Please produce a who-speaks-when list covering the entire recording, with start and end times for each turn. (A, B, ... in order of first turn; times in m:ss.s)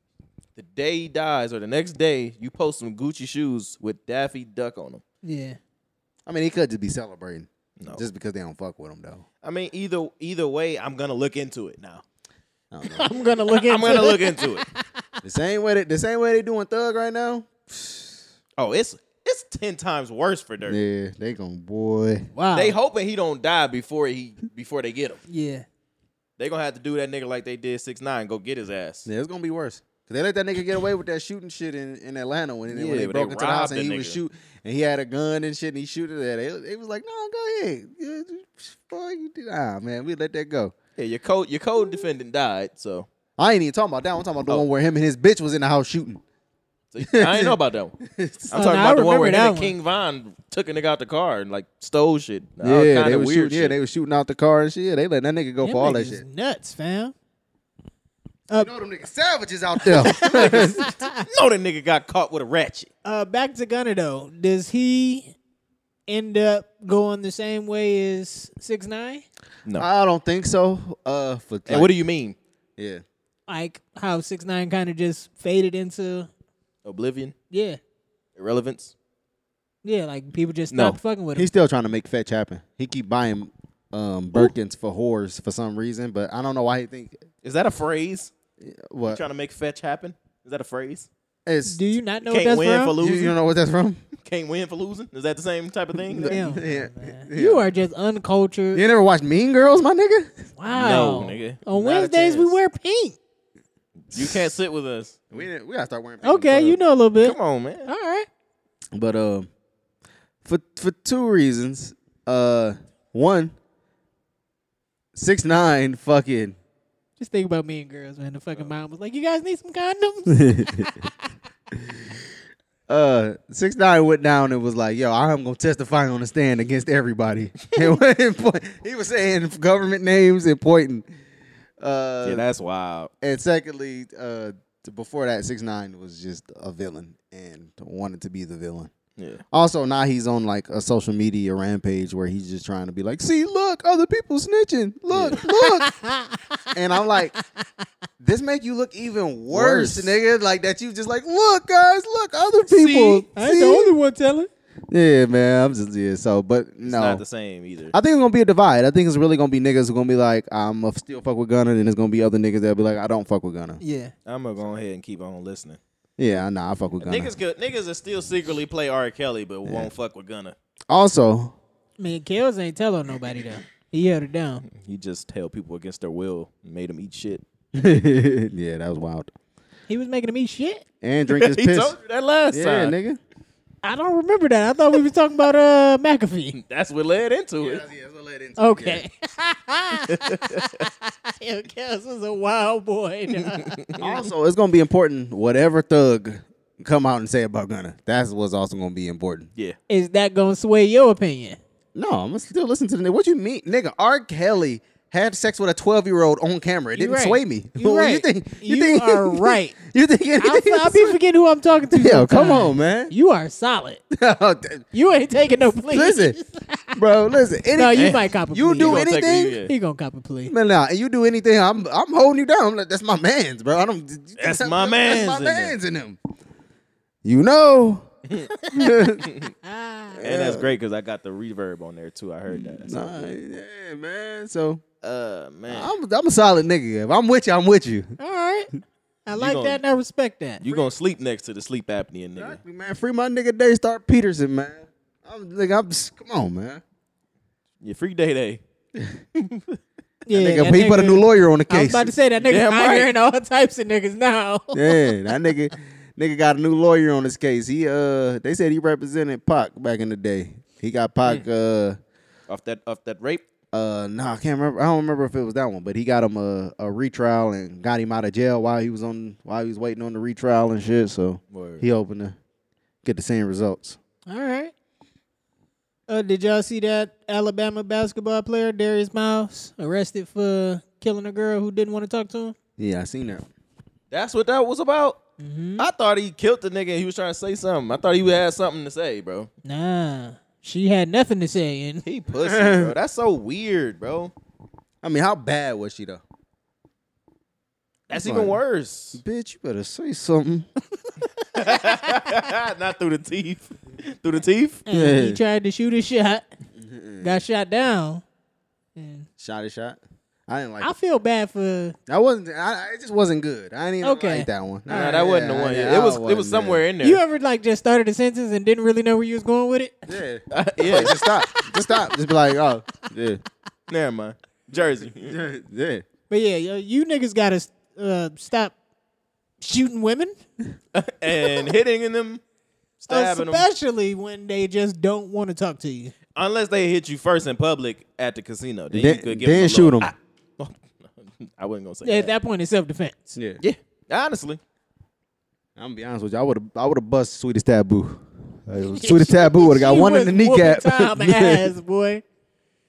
0:00.6-0:05.0 A
0:05.2-0:05.6 B
0:06.3-0:09.2 C
0:07.8-0:08.0 A
0:09.4-0:12.0 A
0:12.7-0:13.1 C
0:12.8-0:14.8 B
0:13.5-0:14.6 A
0:15.2-0:18.2 C
0:18.6-0:20.8 A
0:20.6-0:22.3 C
0:22.3-0:22.8 B
0:22.5-0:25.2 A
0:25.3-0:25.6 B
0:26.4-0:29.1 A
0:29.0-0:40.7 C
0:32.7-0:34.2 A
0:41.0-0:43.1 A
0:43.4-0:46.2 C
0:46.9-0:47.9 A
0:47.0-0:48.5 C
0:48.5-0:53.8 A
0:48.5-0:49.7 B
0:52.6-0:56.2 C
0:55.6-0:57.1 B
0:58.6-1:00.9 C
0:59.8-1:01.2 B
1:00.0-1:02.9 A
1:03.0-1:05.3 B
1:06.1-1:09.2 B
1:09.8-1:11.9 C
1:11.7-1:12.4 A
1:12.8-1:13.0 C
1:13.5-1:16.3 B
1:16.8-1:17.3 A
1:17.5-1:17.8 B
1:18.4-1:18.9 A
1:19.8-1:21.5 B
1:20.7-1:21.0 A
1:21.3-1:27.2 C
1:27.4-1:28.3 A
1:28.6-1:29.2 C
1:29.1-1:31.1 A
1:31.4-1:31.8 C
1:31.6-1:32.9 B
1:32.2-1:33.4 A
1:33.0-1:34.0 C
1:34.2-1:36.4 A
1:36.0-1:37.7 C
1:36.3-1:38.8 B
1:38.7-1:40.3 C
1:40.6-1:43.2 B
1:40.7-1:42.6 A
1:44.1-1:45.4 A
1:45.3-1:46.8 C
1:46.2-1:48.3 B
1:47.2-1:47.9 A
1:48.9-1:49.5 C
1:50.4-1:53.5 C
1:55.1-1:56.6 C
1:57.2-2:01.1 B
2:00.3-2:01.0 C
2:02.9-2:11.0 C
2:11.8-2:12.4 C
2:12.2-2:13.1 A
2:13.2-2:18.9 C
2:19.2-2:19.4 A
2:19.5-2:25.9 C
2:25.1-2:25.4 A
2:25.4-2:26.6 B
2:26.7-2:27.3 C
2:28.2-2:33.9 C
2:29.5-2:30.2 A
2:32.6-2:33.2 A
2:33.3-2:34.5 B
2:34.9-2:37.2 C
2:36.8-2:37.9 A
2:37.9-2:43.8 C
2:43.8-2:44.1 B
2:44.2-2:45.8 A
2:46.2-2:47.3 C
2:47.0-2:50.6 A
2:49.6-2:49.9 C
2:50.9-2:51.5 C
2:52.0-2:54.6 B
2:54.7-2:57.4 A
2:57.7-2:59.3 C
2:59.9-3:00.8 B
3:01.0-3:02.0 C
3:01.3-3:03.0 A
3:02.5-3:03.2 C
3:03.8-3:06.6 B
3:06.5-3:07.8 A
3:07.6-3:09.0 C
3:08.6-3:13.8 B
3:10.0-3:10.9 A
3:13.3-3:14.1 A
3:14.0-3:19.5 C
3:19.9-3:21.6 B
3:21.9-3:31.2 C
3:27.0-3:29.8 B
3:30.4-3:34.0 B
3:31.9-3:33.1 C
3:34.1-3:34.8 C
3:34.9-3:37.0 B
3:35.9-3:36.4 C
3:37.0-3:39.6 C
3:37.7-3:39.0 B
3:37.9-3:38.2 A
3:38.8-3:39.7 A
3:39.6-3:40.5 B
3:40.5-3:46.2 C
3:44.4-3:45.8 A
3:47.2-3:48.0 C
3:48.6-3:49.0 B
3:48.7-3:49.3 C
3:49.2-3:49.5 A
3:49.6-3:50.2 B
3:50.1-3:50.7 C
3:50.2-3:53.3 A
3:52.5-3:54.8 C
3:55.0-3:55.9 A
3:55.7-3:58.1 C
3:58.2-3:58.7 B
3:59.2-4:00.7 B
3:59.3-3:59.8 A
4:00.6-4:02.6 A
4:02.4-4:06.8 C
4:07.8-4:08.6 A
4:09.3-4:09.8 A
4:10.2-4:15.1 B
4:10.3-4:12.1 C
4:12.4-4:13.1 A
4:14.7-4:22.0 C
4:22.5-4:23.4 A
4:23.7-4:32.4 C
4:31.5-4:31.8 A
4:33.0-4:34.0 C
4:34.3-4:34.7 B
4:36.1-4:42.6 B
4:42.8-4:43.5 C
4:44.1-4:45.2 A
4:45.4-4:45.9 B
4:45.8-4:49.5 A
4:49.6-4:52.0 B
4:52.0-4:54.3 A
4:52.4-4:52.9 C
4:55.0-4:56.2 C
4:58.1-4:59.2 A
4:58.1-4:58.6 C
4:59.1-5:00.7 C
5:01.5-5:04.8 A
5:04.9-5:06.4 B
5:04.9-5:05.4 C
5:06.8-5:07.4 C
5:07.2-5:08.2 B
5:09.0-5:09.3 B
5:09.4-5:10.9 C
5:10.8-5:12.0 B
5:12.1-5:16.8 C
5:14.0-5:15.1 B
5:14.9-5:17.2 A
5:17.0-5:20.2 B
5:20.1-5:23.4 C
5:20.5-5:21.2 A
5:20.9-5:22.2 B
5:23.9-5:25.4 A
5:25.0-5:26.0 C
5:26.3-5:28.7 B
5:29.6-5:30.3 B
5:30.9-5:32.4 A
5:33.0-5:33.6 A
5:33.1-5:36.1 B
5:36.3-5:42.3 A
5:38.9-5:40.1 C
5:42.0-5:43.3 B
5:43.3-5:43.6 C
5:43.6-5:44.6 A
5:45.8-5:51.7 C
5:48.8-5:52.2 B